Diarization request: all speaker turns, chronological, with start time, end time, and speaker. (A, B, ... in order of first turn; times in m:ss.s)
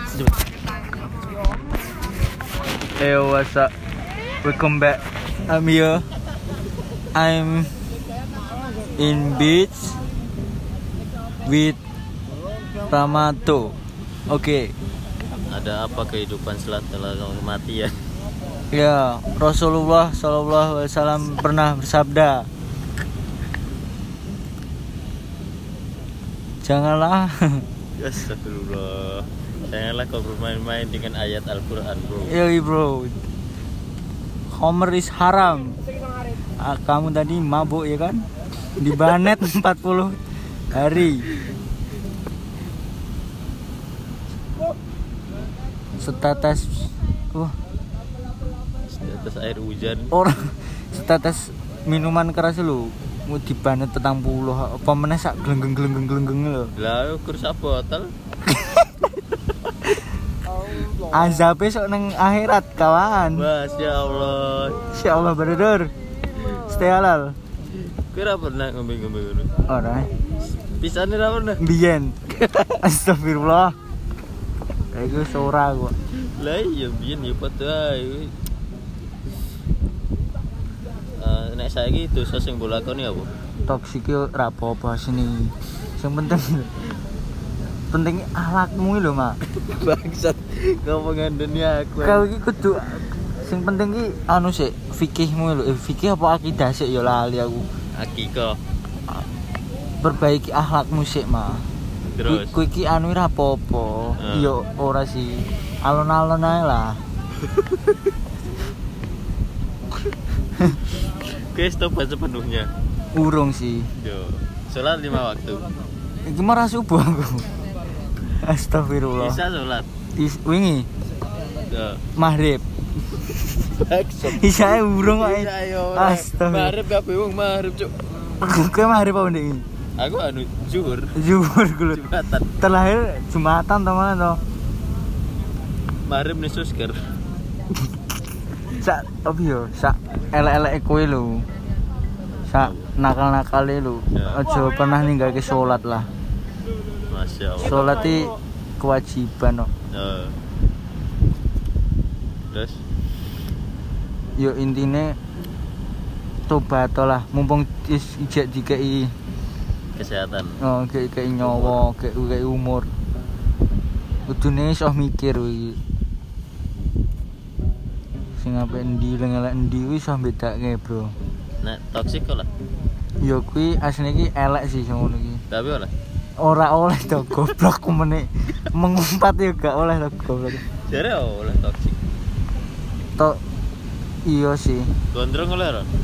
0:03.0-0:03.7 A
0:04.4-0:06.0 A
0:07.1-0:07.7 A
0:09.0-0:10.0 A
0:11.4-0:11.8 A
0:12.9-0:13.8 A
0:14.3-0:14.7 A
0:15.5-0:17.9 B
0:18.7-0:22.5 A
0:26.6-0:27.6 A
0:28.0-0:32.3 B
0:32.3-0:33.2 A
0:34.5-0:35.8 A
0:36.6-0:38.2 A
0:38.8-0:40.2 A
0:40.7-0:41.3 A
0:46.0-0:47.5 A
0:48.9-0:50.1 B
0:50.1-0:56.7 A
0:56.8-0:58.1 B
0:58.5-0:58.9 A
1:01.1-1:03.5 A
1:03.3-1:04.9 B
1:04.9-1:07.3 A
1:08.1-1:09.5 B
1:09.7-1:10.1 A
1:10.5-1:11.6 B
1:11.6-1:13.8 A
1:14.9-1:15.9 A
1:16.1-1:18.3 B
1:21.2-1:23.3 B
1:23.7-1:26.7 A
1:27.9-1:29.4 A
1:29.5-1:32.3 B
1:32.0-1:37.7 A
1:37.9-1:38.6 B
1:40.0-1:41.6 A
1:42.2-1:42.6 B
1:42.3-1:47.0 A
1:44.2-1:44.5 B
1:51.2-1:52.7 B
1:53.1-1:53.9 A
1:54.0-1:55.7 B
1:56.2-1:57.4 A
1:58.3-1:59.4 A
1:59.2-1:59.9 B
2:00.2-2:00.9 A
2:01.7-2:02.0 B
2:02.2-2:02.6 A
2:03.6-2:08.0 B
2:04.2-2:06.7 A
2:08.4-2:09.6 A
2:10.0-2:11.2 B
2:11.1-2:12.0 A
2:11.9-2:12.5 B
2:12.6-2:14.4 A
2:16.0-2:17.0 B
2:18.6-2:21.4 A
2:22.5-2:26.1 A
2:22.6-2:22.9 B
2:24.1-2:24.4 B
2:27.1-2:27.8 B
2:27.6-2:29.7 A
2:29.9-2:30.4 B
2:32.5-2:32.8 B
2:34.4-2:35.2 A
2:36.5-2:39.1 A
2:40.0-2:40.6 B
2:40.6-2:42.9 A
2:41.4-2:41.8 B
2:44.3-2:45.8 A
2:48.4-2:51.1 A
2:51.6-2:52.5 B
2:53.2-2:55.4 A
2:55.5-2:55.9 B
2:56.4-3:00.6 A
3:00.8-3:02.0 B
3:04.2-3:04.9 A
3:05.1-3:05.9 B